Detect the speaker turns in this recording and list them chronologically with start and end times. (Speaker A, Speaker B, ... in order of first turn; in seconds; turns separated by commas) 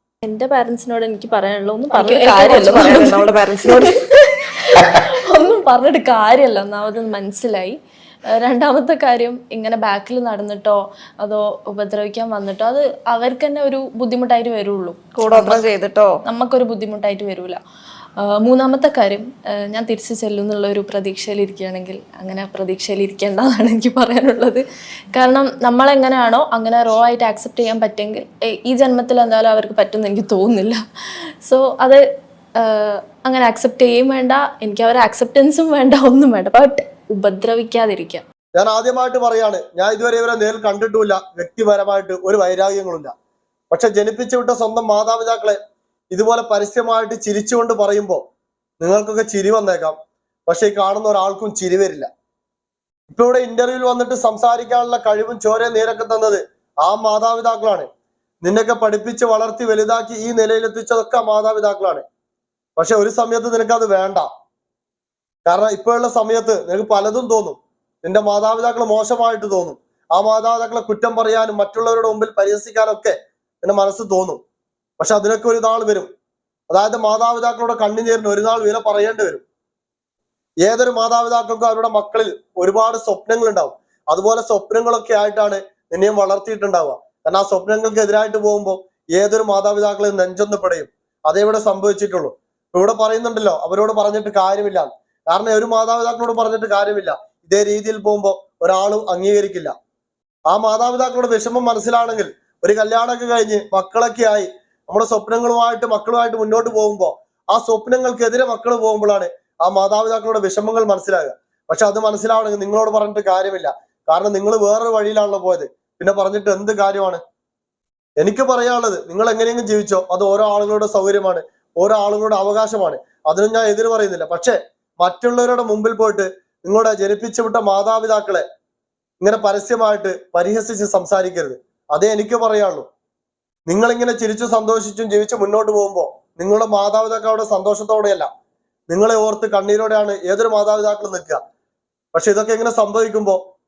Speaker A: 0.2-7.8, Speaker B: 1.9-4.0, Speaker A: 8.3-15.6, Speaker B: 15.2-16.2, Speaker A: 16.2-17.6, Speaker A: 18.2-30.8, Speaker A: 31.4-32.0, Speaker A: 32.6-38.2, Speaker C: 38.6-43.1, Speaker C: 43.7-45.6, Speaker C: 46.1-48.2, Speaker C: 48.8-50.0, Speaker C: 50.5-52.1, Speaker C: 53.1-57.9, Speaker C: 58.4-62.0, Speaker C: 62.8-64.3, Speaker C: 65.5-74.4, Speaker C: 75.0-76.1, Speaker C: 76.7-79.4, Speaker C: 80.6-99.7, Speaker C: 100.5-117.2, Speaker C: 118.2-128.4, Speaker C: 129.2-132.8, Speaker C: 133.7-138.3, Speaker C: 138.9-141.4, Speaker C: 142.1-143.4